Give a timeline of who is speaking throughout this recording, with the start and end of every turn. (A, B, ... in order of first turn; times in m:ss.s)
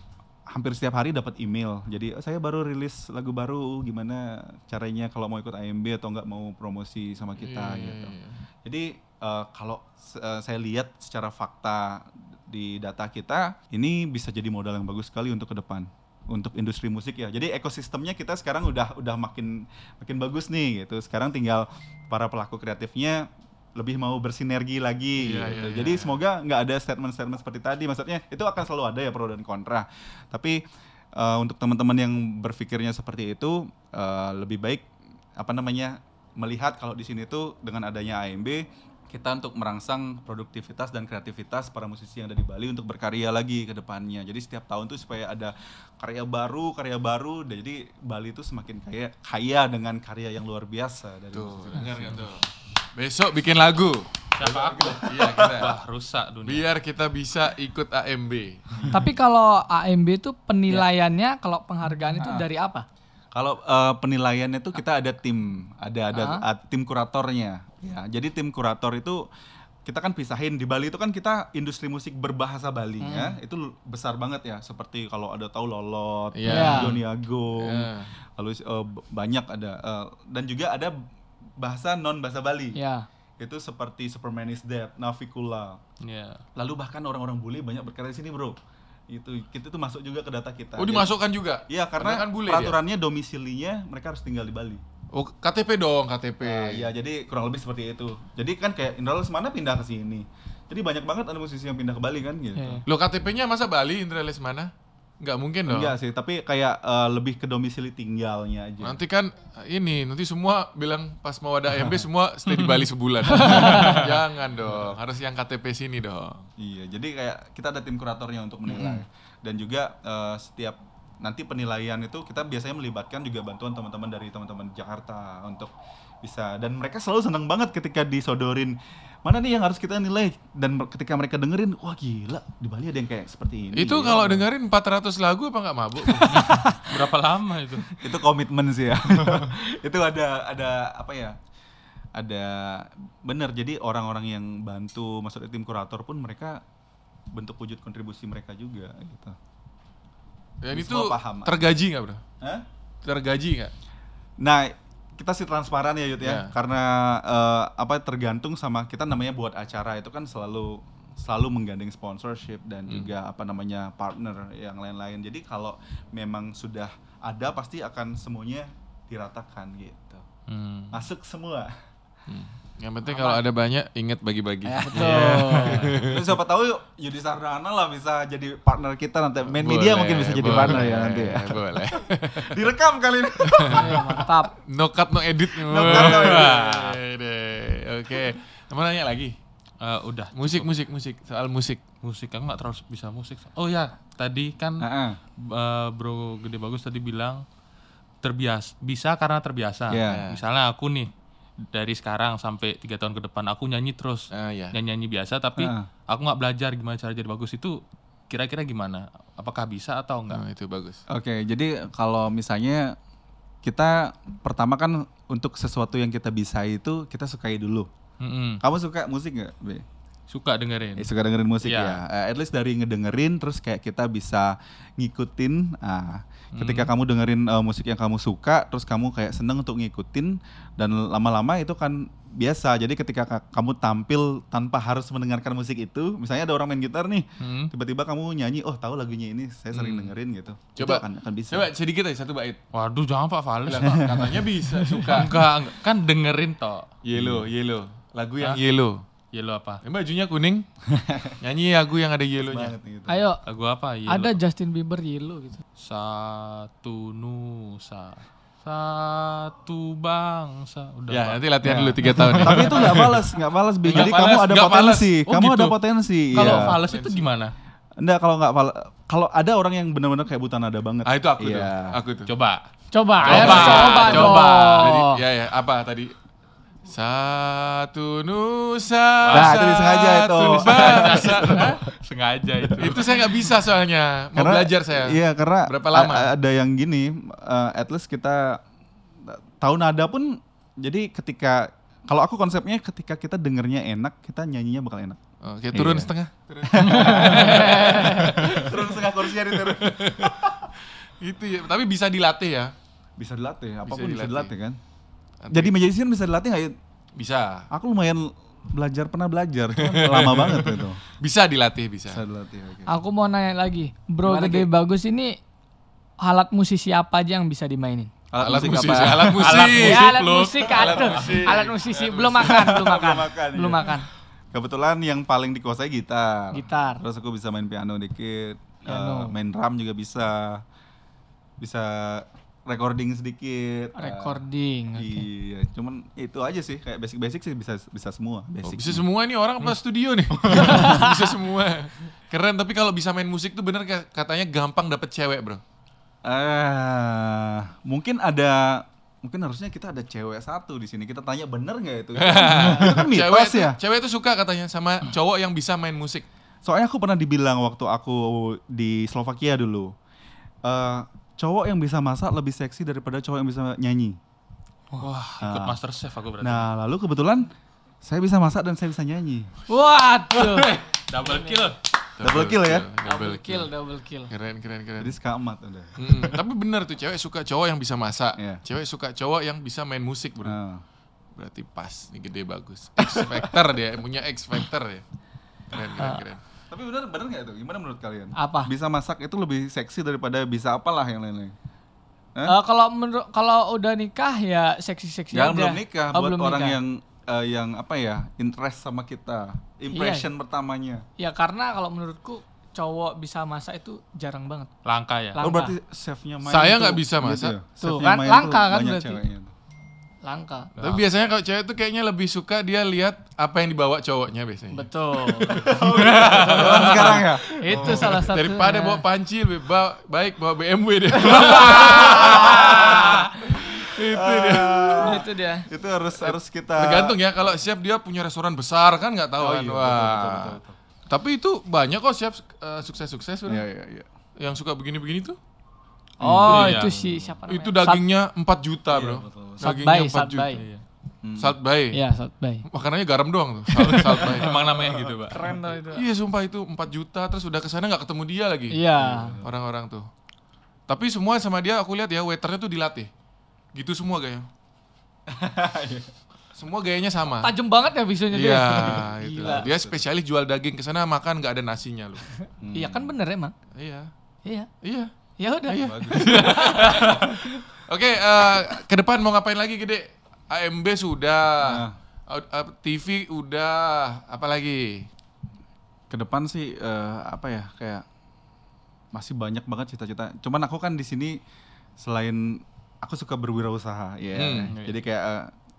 0:00.5-0:30.6 A
0:07.4-0:08.4 B
0:25.2-0:26.2 B
0:31.1-0:34.8 A
0:35.4-0:52.2 A
0:51.3-0:54.2 B
0:51.8-0:52.2 C
0:54.4-0:56.6 C
0:54.4-0:55.6 A
0:54.8-0:55.8 B
0:56.4-0:58.8 B
0:58.8-0:59.0 A
0:58.9-1:02.8 D
1:02.2-1:02.4 A
1:03.3-1:09.2 A
1:06.1-1:06.4 D
1:09.8-1:21.0 A
1:13.0-1:13.4 D
1:16.3-1:18.1 B
1:16.5-1:17.0 D
1:21.6-1:22.8 A
1:22.7-1:23.1 D
1:23.4-1:25.8 A
1:26.0-1:26.4 C
1:26.5-1:28.6 A
1:29.1-1:31.1 A
1:30.8-1:32.8 B
1:31.7-1:34.8 A
1:35.1-1:36.9 B
1:36.4-1:42.8 A
1:42.6-1:42.8 D
1:42.8-1:45.9 B
1:45.7-1:49.0 A
1:48.8-1:56.5 B
1:52.5-1:54.1 C
1:53.3-1:54.0 D
1:56.6-2:14.4 A
1:58.7-1:59.0 B
2:13.7-2:16.5 B
2:16.3-2:18.0 C
2:18.0-2:21.4 A
2:22.1-2:26.6 A
2:27.3-2:29.4 A
2:30.6-2:32.2 B
2:30.7-2:31.6 A
2:32.4-2:32.6 A
2:33.0-2:33.7 B
2:34.4-2:50.2 A
2:36.2-2:36.5 B
2:50.5-2:51.0 C
2:50.9-2:51.7 A
2:52.3-2:56.4 B
2:54.7-3:04.3 A
2:54.8-2:56.0 D
2:55.0-2:56.0 C
2:59.4-3:02.6 B
3:00.4-3:00.9 C
3:03.4-3:09.4 B
3:03.7-3:04.6 D
3:05.6-3:06.6 A
3:05.7-3:07.0 C
3:09.8-3:10.7 C
3:10.3-3:11.8 B
3:12.0-3:17.4 C
3:14.8-3:15.2 A
3:18.2-3:21.1 C
3:19.9-3:20.2 A
3:20.1-3:20.4 B
3:21.7-3:30.4 C
3:24.3-3:24.8 B
3:25.6-3:25.9 A
3:30.3-3:31.0 B
3:31.1-3:33.0 A
3:33.6-3:37.9 A
3:38.2-3:38.6 C
3:38.6-3:39.8 A
3:40.3-3:41.1 C
3:41.0-4:01.7 A
3:41.6-3:42.0 C
3:46.5-3:46.9 C
3:57.4-3:57.7 C
3:59.7-4:00.2 B
4:00.8-4:02.6 B
4:02.7-4:04.4 C
4:03.6-4:05.4 B
4:03.8-4:04.4 A
4:05.0-4:06.9 C
4:07.0-4:09.0 B
4:07.2-4:07.4 A
4:09.3-4:09.8 C
4:09.8-4:10.7 B
4:10.9-4:11.4 A
4:11.4-4:12.7 B
4:12.4-4:13.3 A
4:13.1-4:13.4 D
4:13.4-4:14.4 C
4:14.1-4:15.6 D
4:15.8-4:21.4 C
4:21.1-4:23.2 B
4:21.6-4:26.8 A
4:22.0-4:23.3 C
4:23.8-4:24.4 C
4:23.8-4:25.7 B
4:25.4-4:25.7 C
4:26.3-4:27.5 C
4:26.4-4:27.3 B
4:28.0-4:32.0 A
4:31.0-4:32.3 B
4:32.2-4:32.6 C
4:32.9-4:35.2 D
4:33.2-4:35.0 C
4:33.2-4:36.1 B
4:36.8-4:41.8 B
4:39.2-4:43.4 C
4:39.3-4:41.7 A
4:42.8-4:46.3 B
4:44.4-4:48.6 A
4:49.2-4:55.2 A
4:55.4-5:02.7 B
4:55.7-4:56.1 A
4:56.6-5:00.6 A
4:56.9-4:58.0 C
5:03.2-5:04.8 A
5:03.8-5:04.5 B
5:05.4-5:05.7 B
5:05.5-5:06.8 A
5:07.1-5:07.7 B
5:07.7-5:11.0 A
5:09.8-5:12.2 B
5:12.1-5:12.9 A
5:12.9-5:15.4 D
5:14.2-5:14.7 A
5:16.2-5:18.1 D
5:18.3-5:19.6 A
5:18.4-5:22.6 B
5:19.0-5:21.7 C
5:19.7-5:24.0 D
5:22.4-5:30.6 A
5:26.5-5:27.0 D
5:28.9-5:29.3 D
5:31.6-5:34.4 A
5:33.9-5:35.2 D
5:35.0-5:39.0 A
5:38.6-5:45.6 B
5:40.5-5:41.3 D
5:46.2-5:53.8 A
5:52.2-5:56.2 B
5:56.6-5:59.9 A
6:00.6-6:04.2 A
6:05.0-6:06.7 C
6:05.4-6:05.8 A
6:06.4-6:07.5 A
6:08.0-6:09.5 A
6:09.7-6:10.7 D
6:10.3-6:11.8 C
6:11.3-6:11.6 D
6:12.2-6:13.7 B
6:12.2-6:12.8 A
6:13.0-6:14.3 D
6:14.3-6:15.1 B
6:15.0-6:16.0 A
6:16.0-6:20.6 B
6:18.4-6:18.6 A
6:20.4-6:20.8 A
6:21.3-6:25.0 B
6:25.7-6:26.4 B
6:26.7-6:31.5 A
6:28.4-6:28.7 D
6:32.4-6:36.8 D
6:35.3-6:41.0 A
6:39.9-6:40.3 D
6:41.2-6:44.7 D
6:44.8-6:45.4 C
6:45.3-6:45.8 D
6:45.4-6:49.5 A
6:46.4-6:47.6 B
6:47.8-6:49.2 D
6:50.2-6:50.7 D
6:50.8-6:51.0 C
6:50.8-7:05.2 B
6:54.7-6:55.7 D
6:55.4-6:58.3 A
6:56.0-6:57.1 C
6:57.6-6:59.0 D
7:01.2-7:03.3 D
7:01.8-7:07.2 A
7:05.0-7:05.7 D
7:06.1-7:10.6 B
7:09.4-7:10.8 A
7:11.1-7:13.6 B
7:13.5-7:14.1 A
7:14.4-7:15.4 B
7:16.2-7:18.0 D
7:16.2-7:17.4 C
7:16.4-7:16.8 B
7:17.5-7:20.6 B
7:18.9-7:19.6 A
7:19.6-7:20.6 D
7:20.5-7:20.8 C
7:21.2-7:21.6 A
7:21.4-7:22.0 B
7:21.9-7:22.6 D
7:22.7-7:24.6 B
7:23.8-7:25.5 C
7:24.4-7:26.0 D
7:25.9-7:28.8 B
7:28.7-7:29.4 D
7:28.9-7:29.5 A
7:29.4-7:30.1 B
7:30.9-7:33.1 B
7:33.7-7:34.5 B
7:35.3-7:36.1 A
7:36.5-7:37.5 B
7:37.4-7:39.7 D
7:38.3-7:42.2 B
7:39.4-7:40.0 A
7:42.6-7:43.1 A
7:42.7-7:43.5 D
7:43.7-7:44.1 B
7:44.4-7:44.7 D
7:44.8-7:45.1 B
7:45.4-7:47.4 D
7:45.6-7:55.1 B
7:45.8-7:46.8 A
7:51.6-7:52.0 A
7:56.1-7:58.0 A
7:59.1-8:01.4 A
8:02.0-8:05.5 A
8:04.3-8:04.7 B